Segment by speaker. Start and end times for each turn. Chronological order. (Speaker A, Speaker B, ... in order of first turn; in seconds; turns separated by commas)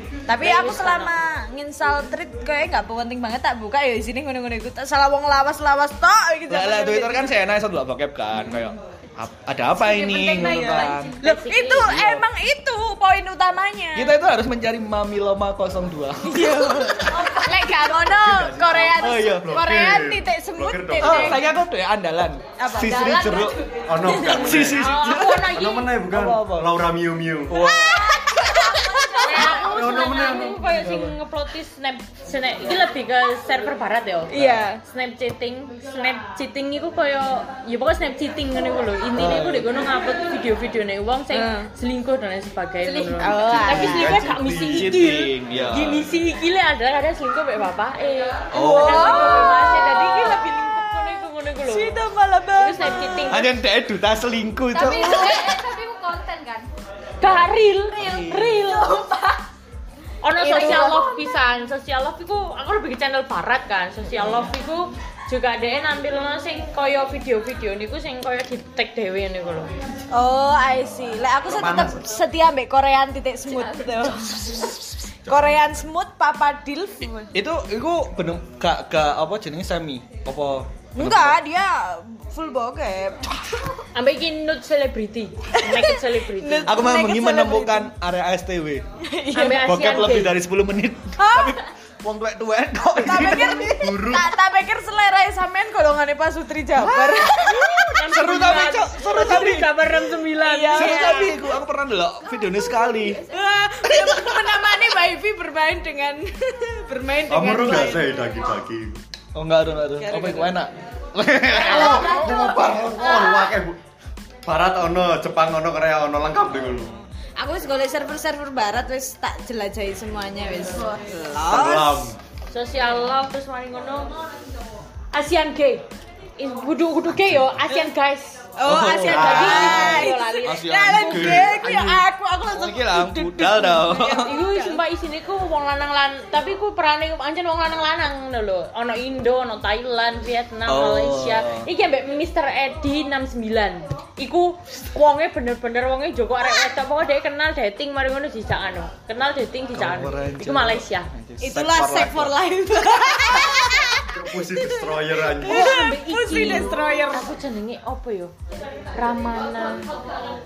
Speaker A: 0.3-7.4, Speaker B: 0.4-1.1, Speaker C: 6.5-11.2, Speaker D: 9.8-11.2, Speaker A: 10.2-14.2, Speaker B: 11.2-12.0, Speaker C: 11.8-12.2, Speaker C: 13.9-17.3, Speaker A: 16.2-21.5, Speaker D: 17.1-17.8, Speaker E: 17.9-21.4, Speaker C: 19.0-19.6, Speaker C: 21.0-23.6, Speaker A: 22.6-24.7, Speaker D: 22.8-23.6, Speaker E: 22.8-27.6, Speaker C: 24.2-26.8, Speaker B: 24.7-26.1, Speaker C: 27.5-28.8, Speaker A: 27.6-30.4, Speaker B: 29.2-52.0, Speaker E: 29.4-30.8, Speaker C: 30.8-31.1, Speaker A: 34.3-34.8, Speaker C: 34.3-34.6, Speaker C: 39.1-39.7, Speaker A: 41.3-41.7, Speaker A: 43.1-44.2, Speaker C: 43.5-46.1, Speaker E: 43.5-44.9, Speaker E: 45.6-46.0, Speaker C: 48.5-49.2, Speaker A: 48.5-53.3, Speaker D: 49.2-49.7, Speaker B: 52.6-53.5, Speaker C: 53.3-55.6, Speaker D: 54.7-56.7, Speaker B: 57.2-59.1, Speaker C: 57.9-58.8, Speaker A: 58.8-59.3, Speaker B: 60.2-69.7, Speaker A: 60.4-61.1, Speaker A: 70.1-77.3, Speaker E: 71.4-72.0, Speaker D: 73.6-74.5, Speaker E: 75.2-75.8, Speaker C: 77.3-81.4, Speaker A: 80.9-83.3, Speaker B: 83.9-86.8, Speaker A: 85.5-87.9, Speaker C: 86.7-88.8, Speaker A: 89.0-89.9, Speaker B: 89.3-90.4, Speaker C: 89.6-94.0, Speaker A: 91.2-91.6, Speaker A: 92.9-97.8, Speaker E: 93.3-94.3, Speaker C: 96.7-99.8, Speaker B: 97.6-101.2, Speaker A: 100.4-101.4, Speaker C: 100.7-103.2, Speaker D: 102.2-103.4, Speaker A: 103.3-108.2, Speaker C: 103.8-104.7, Speaker E: 107.3-109.0, Speaker C: 109.3-112.2, Speaker A: 110.0-110.6, Speaker A: 111.5-112.6, Speaker E: 111.6-113.8, Speaker B: 111.8-112.4, Speaker D: 111.9-113.5, Speaker E: 114.5-116.9, Speaker A: 116.9-122.1, Speaker E: 121.5-122.2, Speaker B: 122.5-124.1, Speaker B: 125.1-125.8, Speaker B: 126.4-131.4, Speaker A: 128.6-134.8, Speaker C: 128.6-134.3, Speaker B: 134.2-151.1, Speaker C: 140.7-141.7, Speaker C: 149.7-153.6, Speaker A: 151.4-157.3, Speaker E: 153.9-155.8, Speaker B: 155.4-158.3, Speaker B: 158.9-159.9